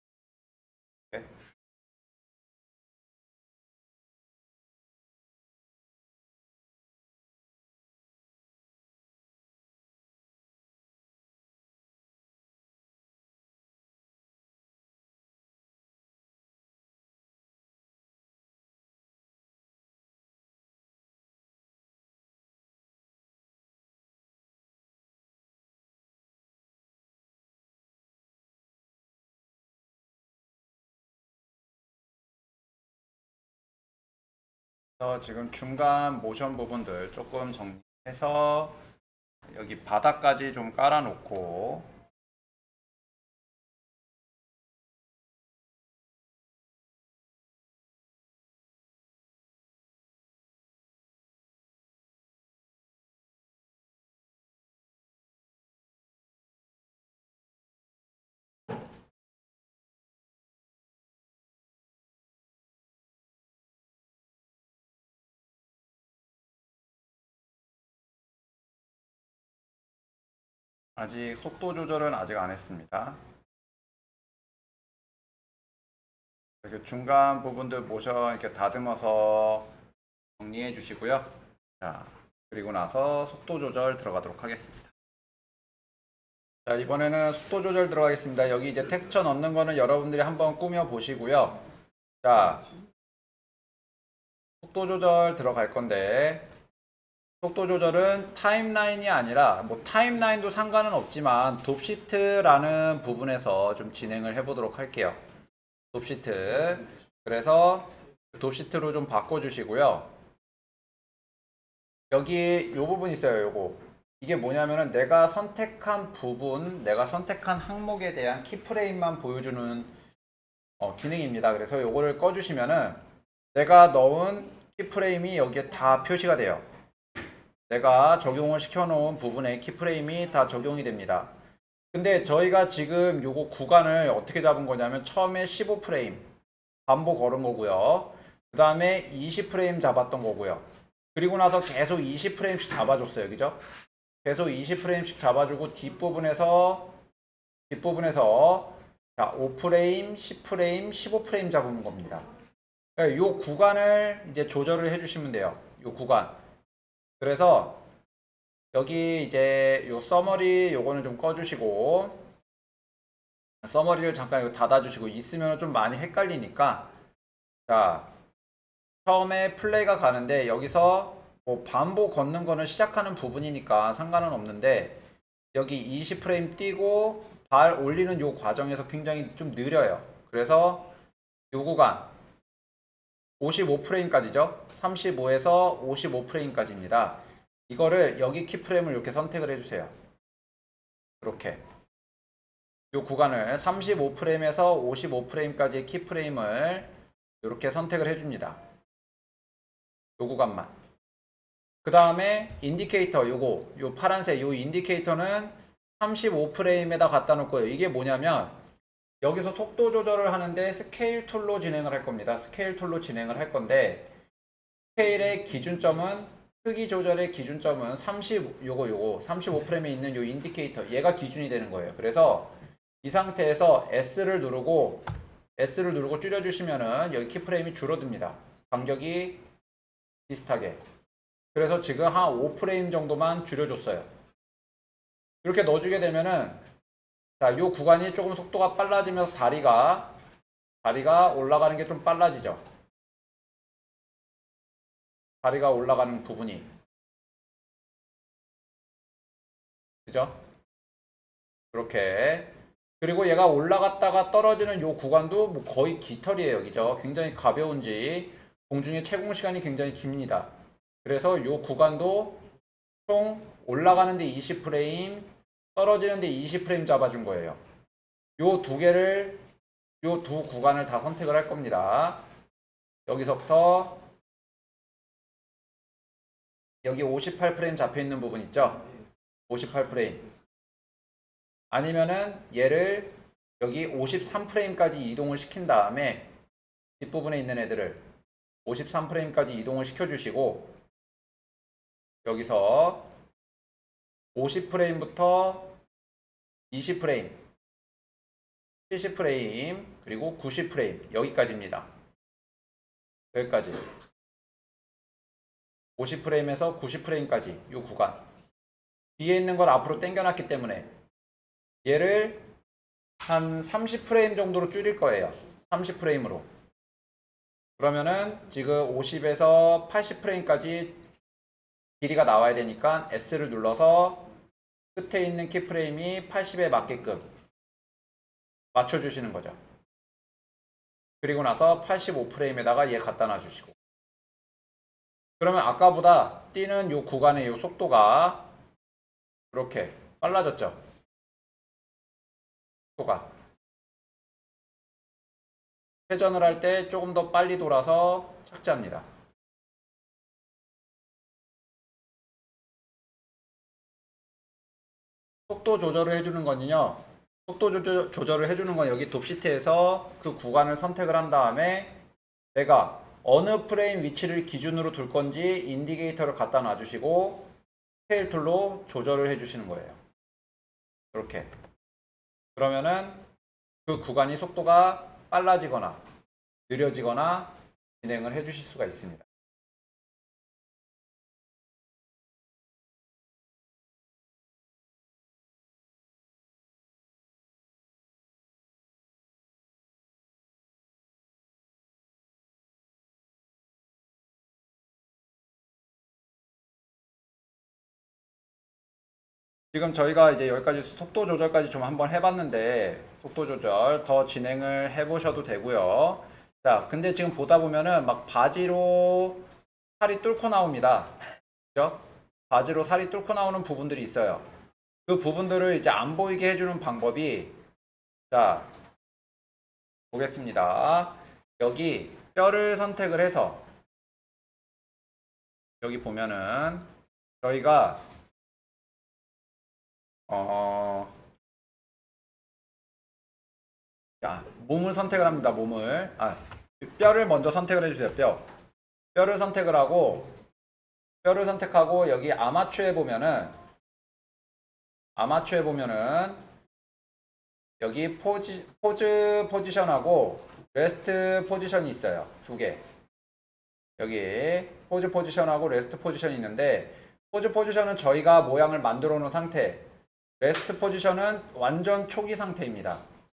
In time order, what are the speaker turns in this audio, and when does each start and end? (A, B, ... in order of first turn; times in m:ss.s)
0:35.0-0:38.8 A
0:39.5-0:41.9 A
1:11.0-1:13.2 A
1:16.6-1:19.7 A
1:20.4-1:24.9 A
1:26.6-1:31.6 A
1:32.2-1:32.6 A
1:34.6-1:36.4 A
1:37.4-1:45.2 A
1:45.9-1:50.1 A
1:52.1-1:59.9 A
2:00.8-2:03.0 A
2:03.5-2:06.6 A
2:07.7-2:11.3 A
2:11.9-2:16.2 A
2:16.9-2:20.6 A
2:21.1-2:23.6 A
2:24.2-2:26.9 A
2:27.7-2:32.2 A
2:33.0-2:36.3 A
2:37.2-2:37.8 A
2:38.7-2:42.2 A
2:43.6-2:46.9 A
2:47.7-2:48.1 A
2:49.0-2:55.0 A
2:55.5-3:00.9 A
3:01.5-3:02.1 A
3:03.4-3:09.9 A
3:11.2-3:11.6 A
3:12.9-3:16.9 A
3:17.4-3:18.6 A
3:20.2-3:20.7 A
3:21.8-3:28.5 A
3:29.2-3:34.1 A
3:35.0-3:45.0 A
3:45.6-3:49.4 A
3:50.3-3:50.8 A
3:51.5-3:54.1 A
3:55.4-3:56.6 A
3:57.4-4:00.1 A
4:00.8-4:02.6 A
4:05.4-4:06.7 A
4:10.0-4:10.3 A
4:11.7-4:12.5 A
4:13.0-4:20.5 A
4:21.0-4:22.4 A
4:23.1-4:27.6 A
4:28.4-4:29.4 A
4:30.0-4:32.2 A
4:33.1-4:34.0 A
4:36.8-4:38.8 A
4:39.5-4:40.2 A
4:41.7-4:46.2 A
4:47.0-4:48.0 A
4:48.6-4:50.7 A
4:52.2-4:53.1 A
4:54.3-4:55.7 A
4:56.7-4:57.4 A
4:58.9-5:01.9 A
5:03.3-5:03.9 A
5:06.0-5:08.2 A
5:09.2-5:10.9 A
5:11.8-5:12.4 A
5:13.2-5:16.4 A
5:17.8-5:21.0 A
5:22.0-5:24.3 A
5:24.9-5:27.3 A
5:28.7-5:29.6 A
5:31.2-5:33.8 A
5:35.4-5:38.4 A
5:39.5-5:40.8 A
5:43.0-5:43.3 A
5:46.1-5:49.0 A
5:55.5-6:02.0 A
6:02.5-6:07.5 A
6:08.1-6:10.0 A
6:11.1-6:11.5 A
6:12.6-6:13.2 A
6:13.8-6:16.0 A
6:16.7-6:19.3 A
6:39.7-6:49.4 A
6:50.0-6:51.2 A
6:51.7-6:54.4 A
6:55.0-6:57.5 A
6:58.3-6:58.7 A
7:00.1-7:03.6 A
7:05.8-7:06.9 A
7:07.4-7:08.0 A
7:10.3-7:11.1 A
7:14.2-7:18.4 A
7:19.1-7:20.3 A
7:21.2-7:23.5 A
7:25.2-7:26.4 A
7:27.8-7:32.8 A
7:34.0-7:39.8 A
7:40.4-7:43.0 A